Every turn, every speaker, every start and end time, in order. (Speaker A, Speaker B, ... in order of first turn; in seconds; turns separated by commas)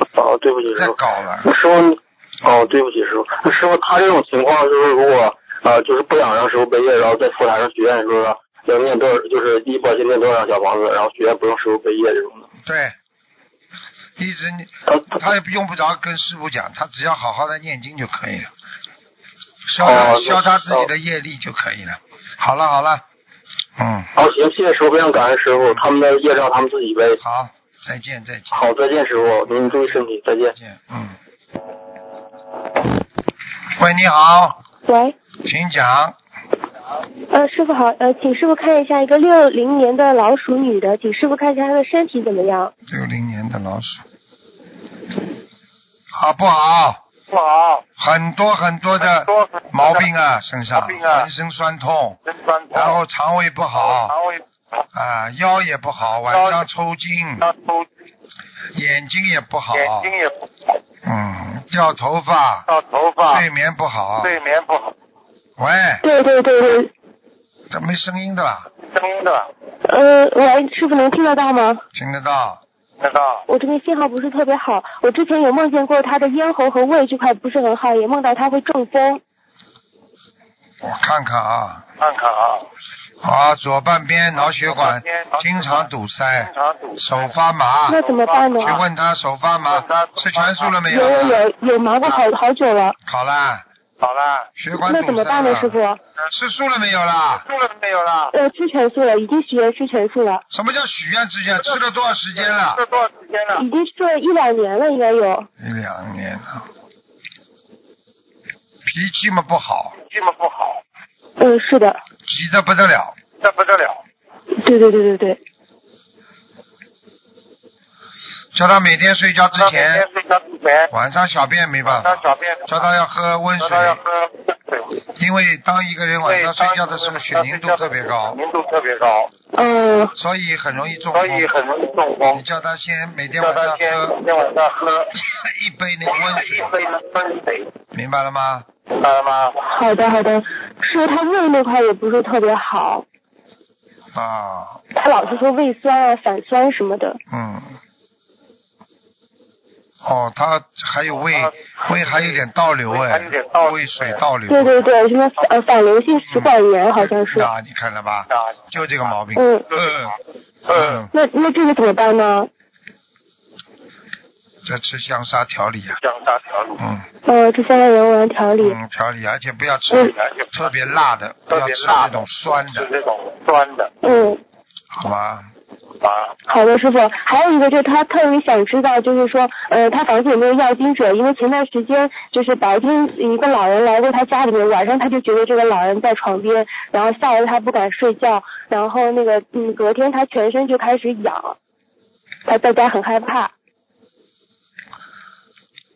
Speaker A: 0.1-12.5, Speaker B: 0.8-1.5, Speaker B: 12.7-13.0, Speaker B: 14.2-18.5, Speaker A: 14.9-15.2, Speaker B: 19.7-23.0, Speaker A: 19.8-20.9, Speaker B: 23.8-24.1, Speaker A: 24.2-27.2, Speaker B: 27.2-28.7, Speaker A: 28.5-30.6, Speaker B: 29.5-31.2, Speaker B: 33.8-34.6, Speaker C: 34.9-35.2, Speaker B: 35.4-36.2, Speaker C: 37.3-42.7, Speaker B: 42.9-44.0, Speaker B: 46.1-47.0, Speaker D: 47.3-47.9, Speaker B: 48.0-52.2, Speaker D: 49.0-50.1, Speaker D: 50.8-51.3, Speaker D: 52.3-53.0, Speaker B: 52.7-54.1, Speaker D: 53.8-54.4, Speaker B: 54.9-57.5, Speaker D: 56.3-56.6, Speaker D: 57.4-57.9, Speaker B: 58.7-60.1, Speaker D: 59.7-60.5, Speaker B: 61.0-62.7, Speaker D: 62.7-63.5, Speaker B: 63.3-64.3, Speaker D: 64.2-65.0, Speaker B: 65.6-66.0, Speaker C: 66.0-66.9, Speaker B: 67.7-68.7, Speaker D: 68.9-69.5, Speaker C: 69.8-71.8, Speaker B: 71.9-72.6, Speaker D: 73.0-73.5, Speaker C: 73.5-79.2, Speaker B: 80.8-81.8, Speaker D: 82.0-82.7, Speaker B: 83.2-88.0, Speaker D: 84.4-87.3, Speaker C: 87.9-88.8, Speaker D: 87.9-88.8, Speaker B: 88.6-91.4, Speaker D: 89.7-90.8, Speaker C: 90.9-93.0, Speaker B: 93.1-93.7, Speaker D: 94.0-94.5, Speaker B: 94.6-95.8, Speaker C: 94.8-96.0, Speaker B: 96.3-97.5, Speaker D: 97.5-98.3, Speaker C: 98.3-100.4, Speaker B: 100.5-102.8, Speaker D: 102.4-103.7, Speaker C: 103.5-105.5, Speaker B: 105.6-106.7, Speaker B: 108.8-110.0, Speaker D: 110.1-110.8, Speaker C: 111.4-112.0, Speaker B: 112.3-113.2, Speaker D: 113.4-114.0, Speaker C: 114.6-115.4, Speaker B: 118.5-120.1, Speaker D: 119.6-120.9, Speaker B: 120.9-124.0, Speaker D: 121.9-122.8, Speaker D: 123.6-125.0, Speaker B: 125.2-128.4, Speaker D: 126.3-129.3, Speaker C: 129.6-130.1, Speaker B: 130.2-131.5, Speaker D: 131.1-132.4, Speaker B: 132.3-134.2, Speaker D: 133.4-135.1, Speaker B: 135.2-136.7, Speaker D: 136.2-137.7, Speaker B: 137.9-138.7, Speaker D: 138.9-139.6, Speaker C: 139.7-143.1, Speaker B: 144.1-144.8, Speaker C: 144.9-147.2, Speaker B: 147.3-147.8, Speaker B: 150.0-154.8, Speaker D: 151.3-154.2, Speaker C: 154.5-157.5, Speaker B: 156.3-160.2, Speaker D: 158.3-158.6, Speaker C: 159.4-159.7, Speaker D: 159.7-161.1, Speaker B: 160.7-161.1, Speaker C: 161.1-162.5, Speaker B: 164.7-166.0, Speaker D: 166.0-166.8, Speaker B: 166.8-167.1, Speaker C: 167.3-168.8, Speaker B: 168.6-172.9, Speaker D: 170.0-170.7, Speaker D: 171.5-174.0, Speaker C: 174.0-174.4, Speaker B: 174.9-175.5, Speaker D: 176.0-176.3, Speaker C: 176.5-191.6, Speaker C: 192.5-193.5